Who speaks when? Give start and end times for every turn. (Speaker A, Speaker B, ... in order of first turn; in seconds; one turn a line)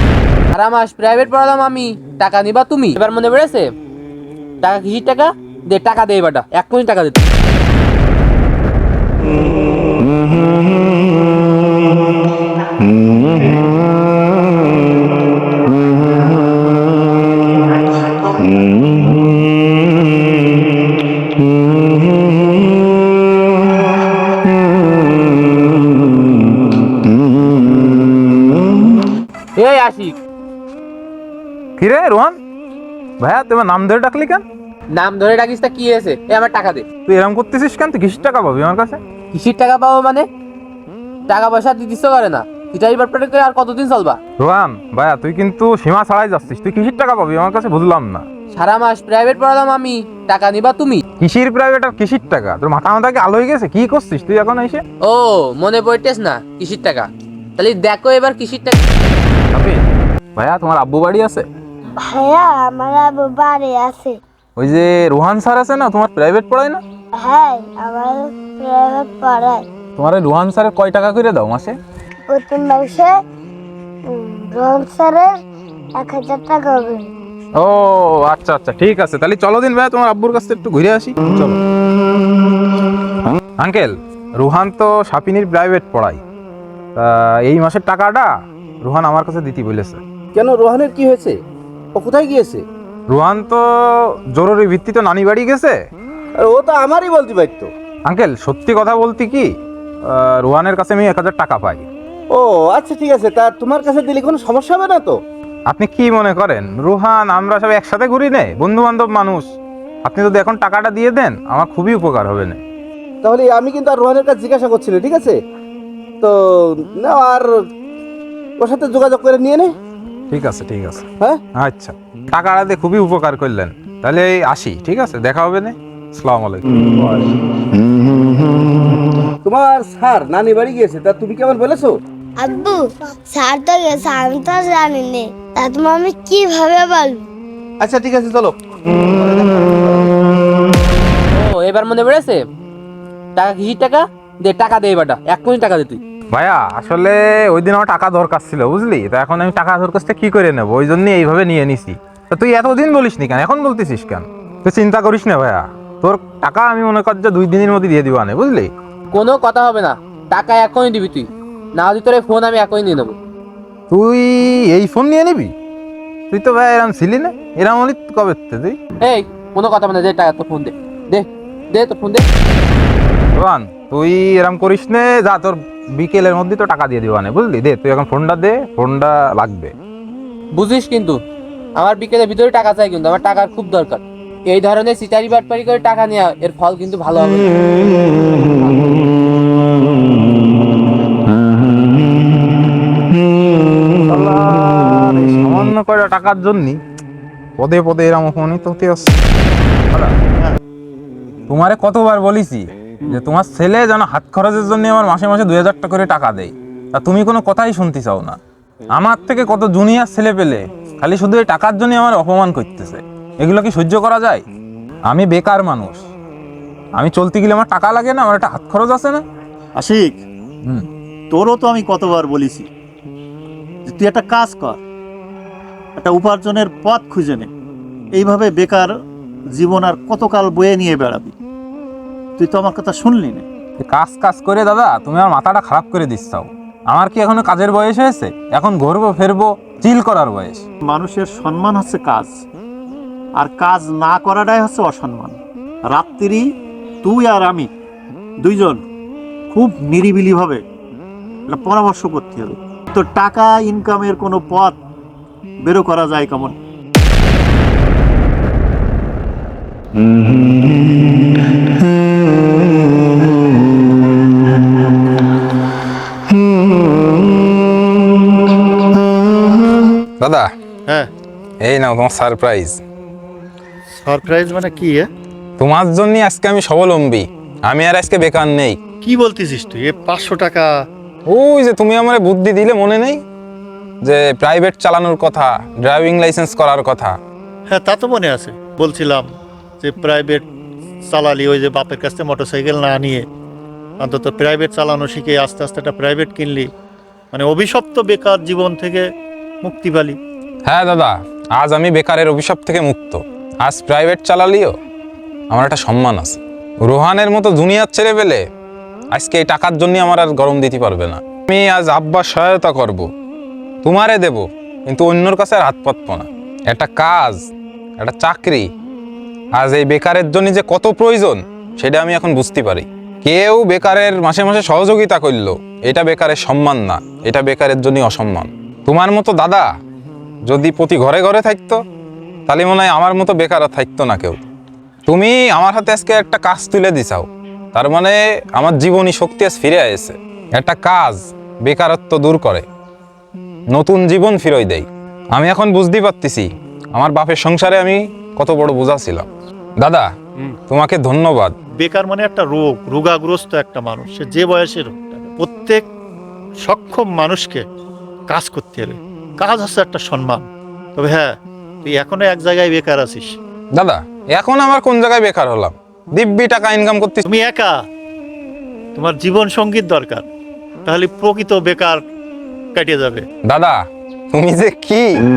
Speaker A: 0.5-3.6
Speaker A: 4.6-7.2
Speaker A: 29.6-30.2
Speaker B: 31.8-32.4
Speaker B: 33.2-34.4
Speaker A: 34.9-36.9
Speaker B: 37.1-39.0
Speaker A: 39.3-40.2
Speaker A: 41.3-44.2
Speaker B: 44.4-48.2
Speaker A: 48.5-51.0
Speaker B: 51.2-54.8
Speaker A: 55.0-58.8
Speaker B: 59.5-59.9
Speaker B: 60.4-61.5
Speaker C: 62.0-64.2
Speaker B: 64.6-66.8
Speaker C: 67.2-69.7
Speaker B: 70.0-71.8
Speaker C: 72.3-73.2
Speaker C: 74.1-75.3
Speaker C: 76.0-77.1
Speaker B: 77.6-81.6
Speaker B: 83.6-86.2
Speaker B: 87.0-88.3
Speaker B: 88.8-90.0
Speaker D: 90.3-91.4
Speaker D: 91.9-92.6
Speaker B: 93.1-95.8
Speaker D: 96.4-97.7
Speaker B: 98.1-99.5
Speaker B: 100.1-101.9
Speaker D: 102.3-105.2
Speaker B: 105.7-109.5
Speaker B: 110.0-112.6
Speaker D: 113.2-115.4
Speaker D: 116.2-117.5
Speaker D: 118.6-119.7
Speaker B: 120.3-126.7
Speaker D: 127.0-127.3
Speaker D: 129.4-132.0
Speaker C: 132.4-137.3
Speaker D: 137.8-140.1
Speaker A: 141.3-142.4
Speaker A: 143.4-146.0
Speaker B: 146.3-158.7
Speaker A: 159.1-163.2
Speaker B: 163.9-165.5
Speaker B: 166.3-168.8
Speaker A: 169.0-172.2
Speaker B: 173.3-179.7
Speaker A: 180.5-181.2
Speaker A: 181.8-187.7
Speaker A: 188.4-188.8
Speaker B: 194.1-196.8
Speaker B: 197.6-199.1
Speaker B: 201.5-208.4
Speaker B: 208.9-214.4
Speaker B: 215.1-216.0
Speaker B: 217.0-219.2
Speaker E: 219.8-220.2
Speaker E: 221.3-222.7
Speaker E: 223.8-224.8
Speaker E: 226.0-227.5
Speaker E: 228.1-228.9
Speaker E: 229.5-231.3
Speaker E: 232.4-233.4
Speaker B: 233.8-240.6
Speaker E: 240.8-242.3
Speaker E: 243.4-246.4
Speaker E: 247.0-247.7
Speaker E: 248.4-248.8
Speaker E: 249.5-250.6
Speaker E: 251.5-254.8
Speaker E: 255.6-256.6
Speaker B: 270.2-270.5
Speaker B: 271.6-272.8
Speaker E: 273.9-275.1
Speaker B: 275.6-278.8
Speaker E: 279.0-280.7
Speaker B: 281.3-283.2
Speaker B: 284.0-287.1
Speaker E: 287.7-289.3
Speaker E: 289.8-290.5
Speaker E: 291.1-293.3
Speaker E: 294.0-296.7
Speaker E: 297.3-299.1
Speaker E: 299.6-300.2
Speaker B: 300.7-304.7
Speaker B: 305.5-308.4
Speaker B: 309.1-313.1
Speaker B: 313.8-317.4
Speaker B: 318.0-318.7
Speaker B: 319.6-329.7
Speaker B: 330.5-331.8
Speaker B: 332.5-334.4
Speaker B: 335.1-342.6
Speaker B: 343.7-349.3
Speaker B: 349.8-350.1
Speaker B: 350.7-351.6
Speaker E: 351.8-355.9
Speaker E: 356.6-357.6
Speaker E: 358.3-363.4
Speaker B: 363.8-367.3
Speaker E: 367.2-367.8
Speaker E: 368.9-370.3
Speaker E: 370.9-372.0
Speaker E: 372.7-373.2
Speaker B: 373.5-373.8
Speaker B: 374.3-375.1